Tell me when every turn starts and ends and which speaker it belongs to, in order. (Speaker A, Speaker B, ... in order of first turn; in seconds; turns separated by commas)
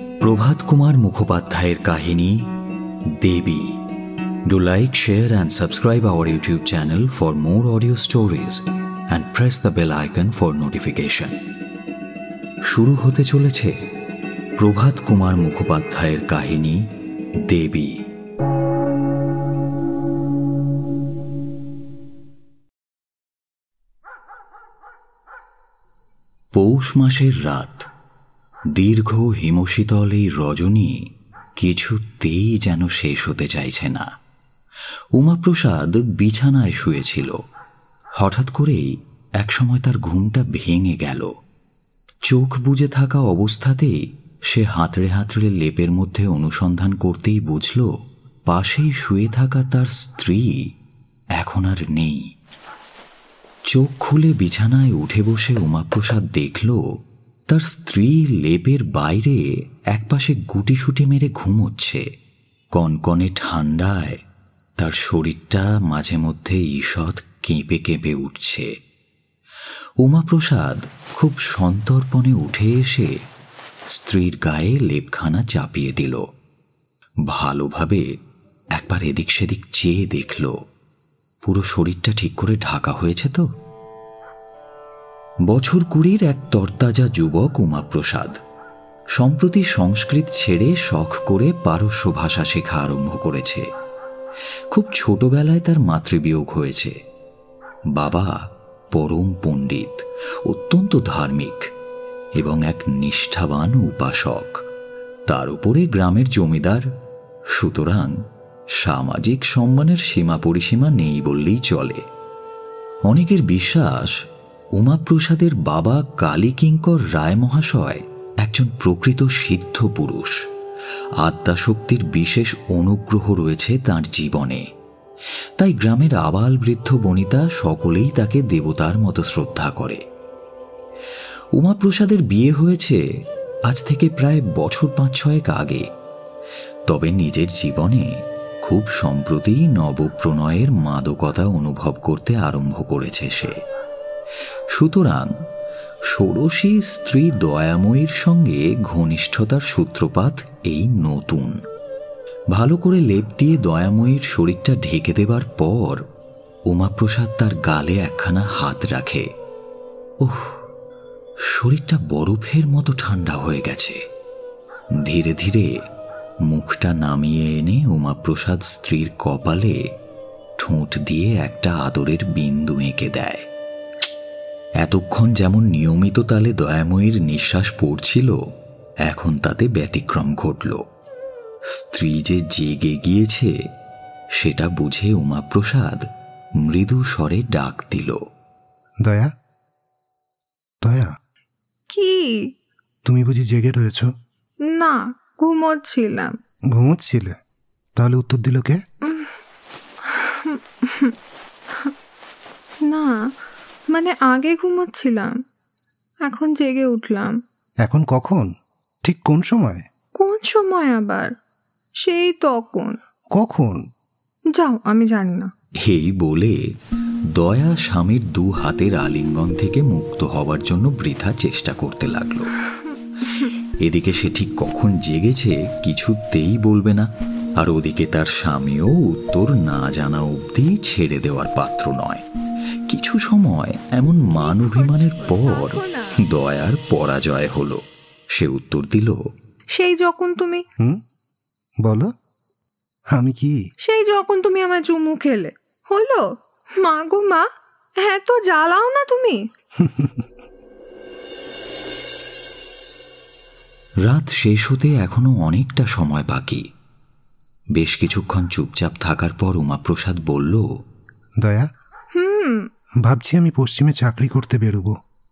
Speaker A: 0.2-2.5, Speaker A: 3.2-3.8, Speaker A: 4.5-11.3, Speaker A: 12.7-13.8, Speaker A: 14.6-16.9, Speaker A: 17.4-18.0, Speaker A: 26.6-27.9, Speaker A: 28.7-31.1, Speaker A: 31.6-34.1, Speaker A: 35.2-37.4, Speaker A: 38.2-41.3, Speaker A: 42.3-47.9, Speaker A: 48.5-50.7, Speaker A: 51.4-52.3, Speaker A: 53.7-57.0, Speaker A: 57.5-62.0, Speaker A: 62.8-64.2, Speaker A: 64.8-68.7, Speaker A: 70.0-73.1, Speaker A: 73.9-76.2, Speaker A: 77.3-78.1, Speaker A: 78.8-80.5, Speaker A: 81.4-83.5, Speaker A: 85.5-88.4, Speaker A: 89.2-93.7, Speaker A: 94.7-97.0, Speaker A: 97.9-98.4, Speaker A: 98.9-101.7, Speaker A: 102.4-104.6, Speaker A: 105.3-106.9, Speaker A: 107.5-108.1, Speaker A: 108.8-112.0, Speaker A: 113.1-114.1, Speaker A: 114.8-120.4, Speaker A: 121.2-124.6, Speaker A: 125.6-130.0, Speaker A: 131.6-133.0, Speaker A: 133.7-135.8, Speaker A: 136.9-138.1, Speaker A: 138.6-143.6, Speaker A: 144.8-145.3, Speaker A: 146.1-151.6, Speaker A: 152.5-156.0, Speaker A: 156.7-159.3, Speaker A: 160.2-160.6, Speaker A: 161.5-164.0, Speaker A: 165.0-165.8, Speaker A: 166.5-169.8, Speaker A: 170.6-173.4, Speaker A: 174.8-178.4, Speaker A: 179.1-180.8, Speaker A: 181.7-183.5, Speaker A: 184.4-186.1, Speaker A: 186.6-188.2, Speaker B: 189.0-189.3, Speaker B: 190.8-191.2, Speaker C: 191.9-192.5, Speaker B: 193.1-194.1, Speaker C: 194.7-196.4, Speaker B: 196.7-197.4, Speaker B: 198.0-198.8, Speaker C: 200.1-201.1, Speaker C: 202.9-203.3, Speaker C: 203.9-205.4, Speaker C: 206.2-207.4, Speaker B: 207.8-208.5, Speaker B: 209.0-209.9, Speaker C: 210.2-211.3, Speaker C: 212.0-213.0, Speaker B: 213.3-213.8, Speaker C: 214.6-215.5, Speaker A: 215.8-216.6, Speaker A: 217.3-222.5, Speaker A: 223.8-232.2, Speaker A: 232.9-237.8, Speaker C: 234.5-236.2, Speaker A: 238.3-239.3, Speaker C: 239.8-240.6, Speaker B: 241.8-242.1, Speaker B: 243.1-243.6, Speaker C: 243.8-247.5, Speaker C: 248.0-249.4, Speaker B: 249.8-250.3, Speaker A: 254.0-256.6, Speaker A: 257.8-260.7, Speaker B: 261.4-261.7, Speaker C: 262.2-262.7, Speaker B: 263.0-265.0